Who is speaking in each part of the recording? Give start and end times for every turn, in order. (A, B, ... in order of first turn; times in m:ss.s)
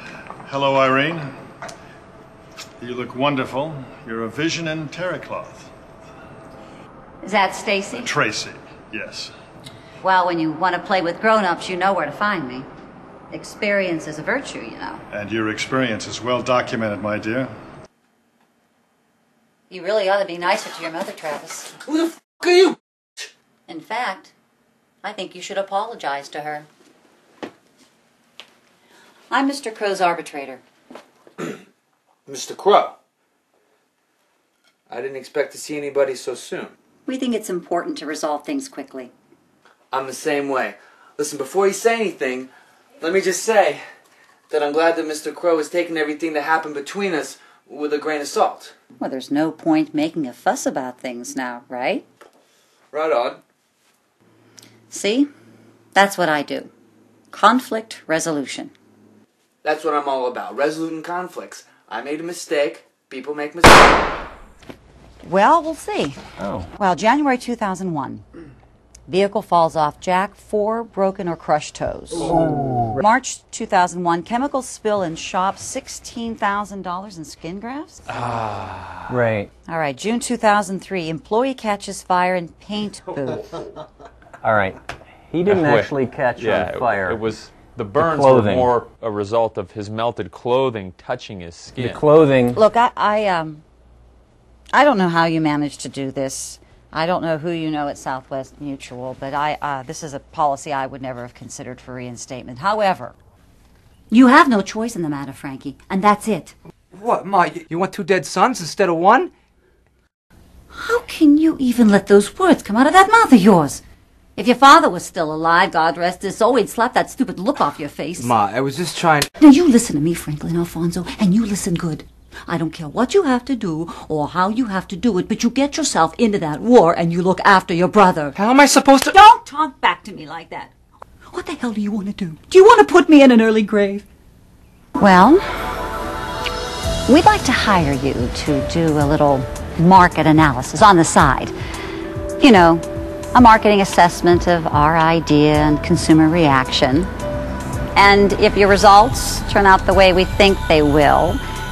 0:00.5-0:01.3 A
0:02.8-0:05.7 A
0:07.2-0:08.1 B
0:08.0-0:09.3 A
0:10.0-0:12.7 B
0:13.3-0:15.0 B
0:15.1-0:17.5 A
0:19.7-0:21.7 B
0:21.8-0:22.8 C
0:23.7-0:24.3 B
0:25.0-0:26.7 B
0:29.3-0:30.6 B
0:32.3-0:33.0 C
0:34.9-0:36.7 C
0:37.1-0:39.1 B
0:39.9-0:43.8 C
0:44.5-0:48.7 C
0:49.0-0:52.0 B
0:52.9-0:53.4 C
0:54.9-0:55.3 B
0:56.0-0:56.7 B
0:57.3-0:58.7 B
0:59.6-1:04.0 C
1:05.2-1:06.2 B
1:06.7-1:08.2 B
1:09.1-1:12.4 B
1:12.5-1:12.9 D
1:12.9-1:18.0 B
1:18.1-1:19.1 E
1:19.1-1:19.5 D
1:19.7-1:23.6 B
1:24.4-1:27.2 D
1:25.4-1:32.0 E
1:28.0-1:28.7 D
1:31.8-1:32.6 D
1:32.5-1:33.6 B
1:34.7-1:43.2 B
1:44.1-1:46.6 B
1:46.9-1:49.3 F
1:50.7-1:53.8 B
1:54.4-1:58.3 B
1:58.4-1:59.3 F
1:59.4-2:08.4 B
2:08.4-2:09.1 F
2:09.0-2:10.7 B
2:11.3-2:14.1 B
2:15.0-2:15.7 B
2:17.1-2:21.5 B
2:22.4-2:27.1 B
2:28.0-2:31.4 B